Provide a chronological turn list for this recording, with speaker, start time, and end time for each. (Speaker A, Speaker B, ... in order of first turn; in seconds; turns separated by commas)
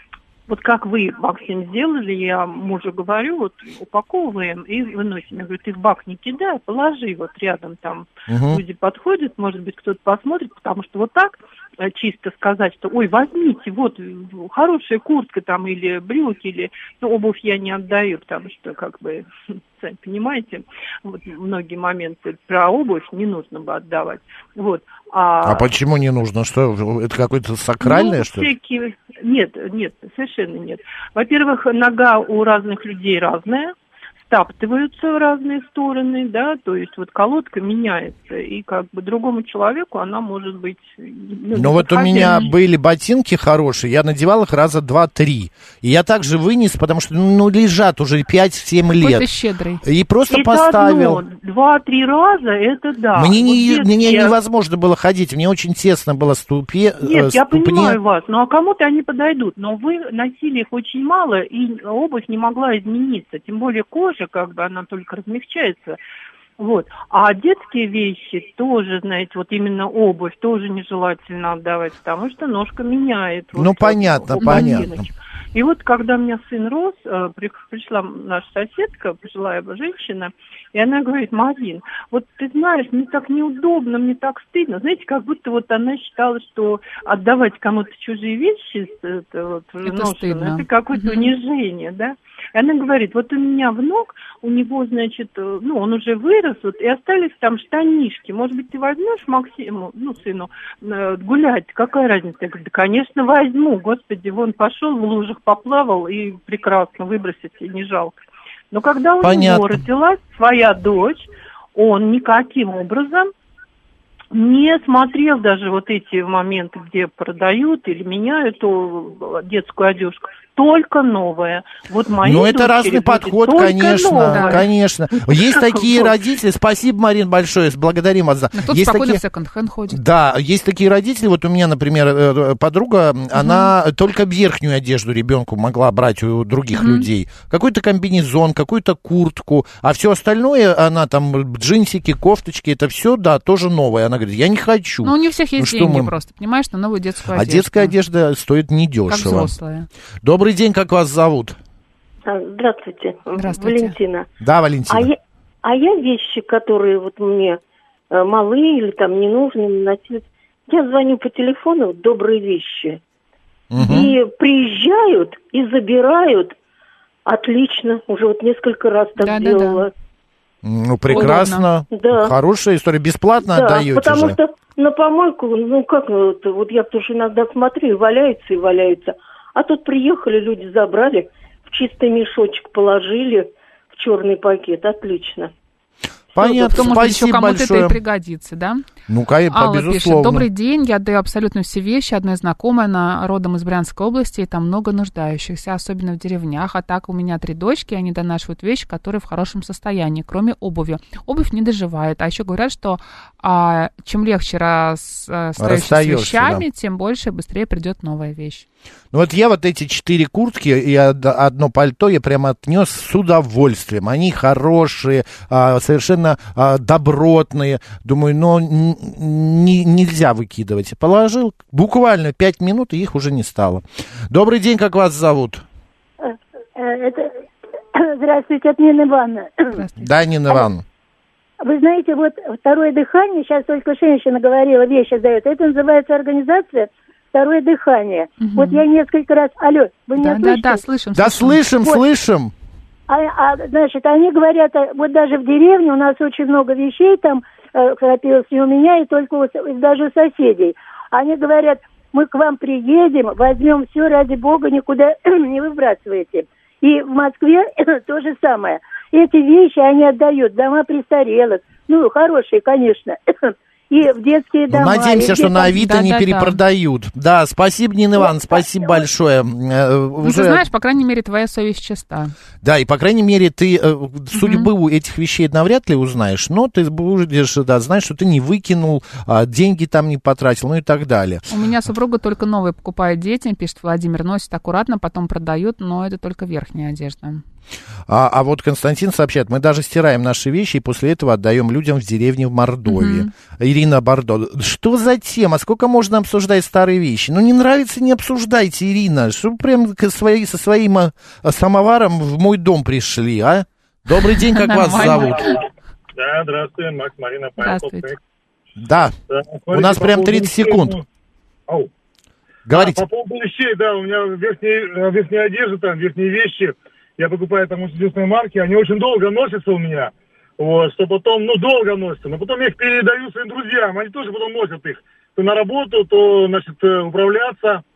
Speaker A: 0.5-25.7, Speaker B: 8.3-8.6, Speaker B: 25.4-28.5, Speaker A: 27.8-42.5, Speaker B: 41.5-49.3, Speaker C: 42.1-42.5, Speaker C: 49.0-49.8, Speaker B: 49.8-51.2, Speaker A: 50.3-54.4, Speaker B: 53.1-58.0, Speaker A: 57.0-66.0, Speaker A: 66.6-108.2, Speaker B: 73.5-75.0, Speaker C: 74.4-74.8, Speaker C: 89.8-91.3, Speaker A: 108.7-113.3, Speaker B: 109.2-109.8, Speaker A: 114.3-124.7, Speaker B: 122.2-129.2, Speaker C: 124.2-124.7, Speaker A: 125.2-126.1, Speaker C: 128.5-130.0, Speaker B: 129.9-146.1, Speaker C: 133.3-133.7, Speaker C: 136.7-137.1, Speaker C: 145.0-147.9, Speaker B: 147.3-149.5, Speaker C: 149.1-149.9, Speaker B: 150.2-151.6, Speaker D: 152.3-154.3, Speaker C: 153.4-153.9, Speaker B: 154.4-155.1, Speaker D: 154.9-157.6, Speaker D: 158.1-163.0, Speaker B: 163.7-164.1, Speaker D: 163.8-166.5, Speaker D: 167.2-169.9, Speaker C: 169.2-169.8, Speaker B: 170.6-174.3, Speaker C: 171.1-171.7, Speaker D: 171.9-172.3, Speaker D: 173.4-185.5, Speaker B: 186.3-188.0, Speaker C: 186.4-188.8, Speaker B: 189.1-190.5, Speaker C: 189.5-208.6, Speaker B: 205.6-206.6, Speaker B: 209.1-225.6, Speaker E: 226.2-227.3, Speaker E: 227.9-229.7, Speaker C: 229.7-230.1, Speaker B: 230.0-230.8, Speaker E: 231.6-240.8, Speaker C: 238.4-238.8, Speaker C: 240.2-241.6, Speaker B: 241.1-242.5, Speaker E: 243.1-265.7, Speaker B: 264.7-270.6, Speaker C: 265.6-266.6, Speaker E: 268.2-268.8, Speaker C: 270.2-272.3, Speaker B: 272.6-281.5, Speaker C: 274.3-274.7, Speaker C: 281.5-287.4, Speaker B: 288.1-305.4, Speaker C: 292.9-293.3, Speaker C: 304.4-305.6, Speaker F: 304.9-305.6, Speaker F: 306.1-308.2, Speaker C: 307.6-308.1, Speaker B: 308.8-309.1, Speaker F: 309.3-311.0, Speaker B: 309.7-310.9, Speaker B: 312.7-313.0, Speaker F: 312.7-327.8